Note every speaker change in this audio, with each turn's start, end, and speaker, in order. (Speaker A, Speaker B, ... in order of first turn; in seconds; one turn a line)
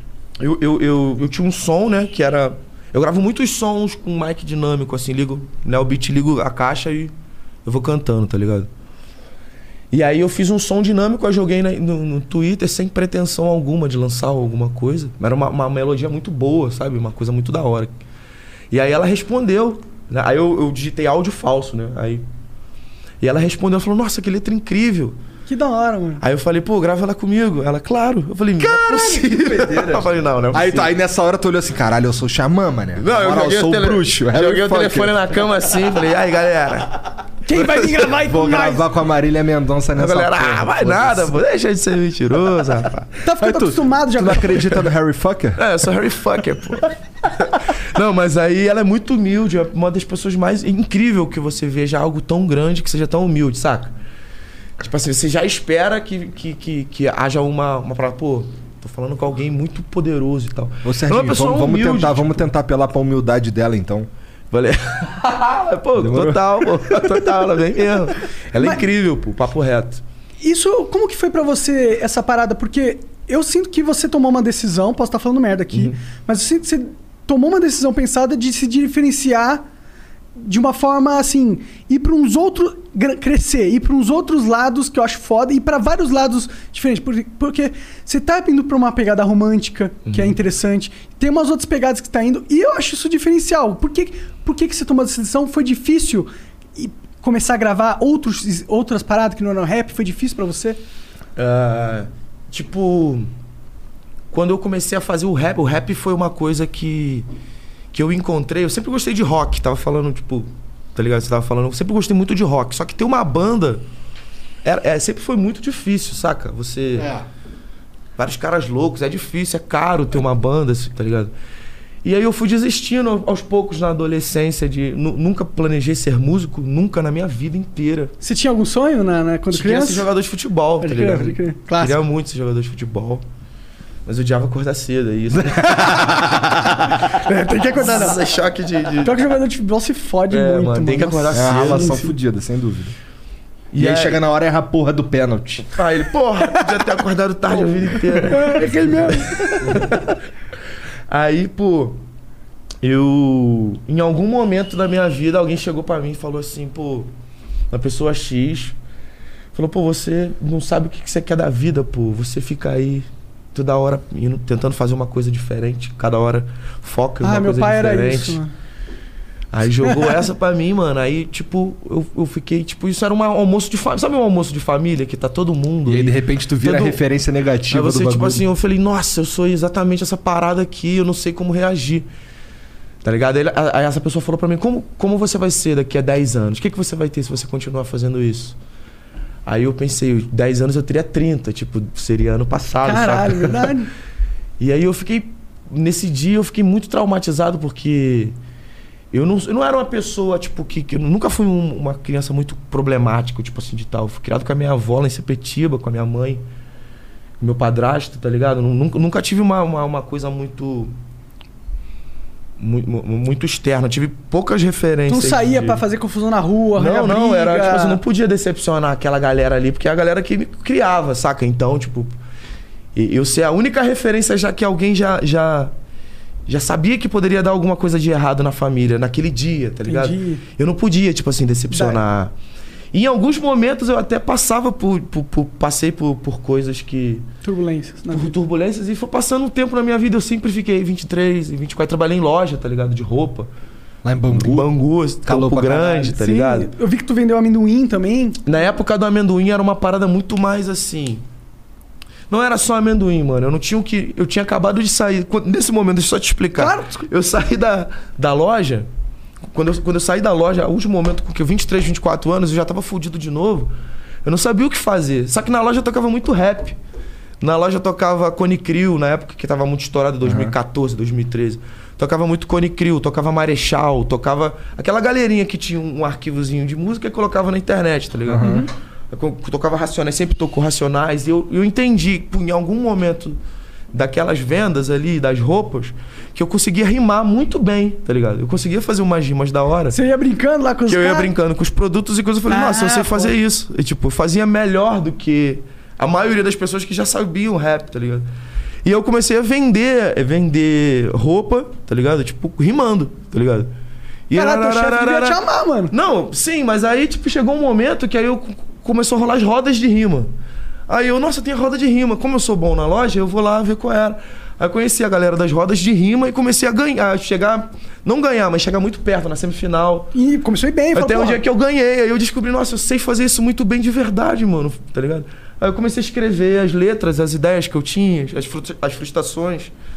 Speaker A: 0.4-7.1
Speaker A: 7.7-8.7
Speaker A: 9.9-17.9
Speaker A: 18.7-22.2
Speaker A: 23.2-25.2
Speaker B: 25.5-26.2
Speaker A: 26.2-30.9
Speaker C: 28.9-30.0
Speaker C: 30.5-35.2
Speaker A: 33.0-37.0
Speaker B: 37.5-38.9
Speaker A: 37.5-38.1
Speaker C: 38.2-41.4
Speaker A: 40.0-43.1
Speaker B: 43.2-44.5
Speaker C: 43.4-45.6
Speaker A: 45.6-53.9
Speaker A: 54.8-62.5
Speaker C: 60.8-64.1
Speaker A: 64.5-70.0
Speaker C: 66.0-66.7
Speaker B: 68.6-68.8
Speaker B: 70.4-79.6
Speaker B: 80.4-100.8
Speaker A: 90.1-90.3
Speaker A: 101.4-103.3
Speaker A: 104.3-107.3
Speaker A: 107.9-113.8
Speaker A: 114.6-117.2
Speaker A: 118.2-121.3
Speaker A: 122.0-128.1
Speaker B: 128.2-130.1
Speaker A: 129.5-133.2
Speaker B: 130.8-132.0
Speaker A: 134.1-136.2
Speaker C: 135.4-137.0
Speaker B: 137.0-138.2
Speaker A: 137.8-139.3
Speaker B: 139.0-142.1
Speaker A: 140.3-142.0
Speaker C: 141.3-142.9
Speaker A: 143.7-144.2
Speaker C: 143.8-145.7
Speaker A: 145.7-150.2
Speaker B: 148.1-149.7
Speaker A: 151.1-152.0
Speaker A: 152.8-157.1
Speaker A: 157.7-158.8
Speaker A: 159.5-168.4
Speaker B: 167.2-168.5
Speaker A: 169.5-177.0
Speaker B: 169.8-170.1
Speaker C: 175.9-178.4
Speaker A: 177.7-182.1
Speaker A: 183.0-188.6
Speaker A: 189.5-193.8
Speaker B: 192.8-193.9
Speaker A: 194.6-198.3
Speaker A: 199.1-206.4
Speaker A: 207.4-210.9
Speaker A: 212.6-215.8
Speaker B: 215.1-218.0
Speaker A: 216.8-222.1
Speaker A: 222.9-225.7
Speaker A: 226.5-232.3
Speaker B: 229.9-230.4
Speaker B: 231.7-232.0
Speaker A: 232.9-237.3
Speaker B: 237.4-238.3
Speaker A: 238.1-243.5
Speaker C: 244.0-244.7
Speaker A: 244.3-246.7
Speaker C: 245.2-246.2
Speaker B: 246.1-248.4
Speaker A: 248.4-251.2
Speaker A: 252.3-258.9
Speaker B: 256.6-257.1
Speaker A: 259.5-263.7
Speaker A: 264.2-266.8
Speaker A: 267.4-283.4
Speaker C: 270.2-270.5
Speaker C: 278.3-278.6
Speaker B: 278.4-278.7
Speaker A: 283.9-290.0
Speaker B: 289.9-291.3
Speaker A: 290.9-298.3
Speaker B: 292.5-293.3
Speaker A: 298.9-303.7
Speaker A: 304.3-310.3
Speaker B: 304.3-305.9
Speaker A: 310.9-320.1
Speaker B: 320.1-321.4
Speaker A: 320.9-329.7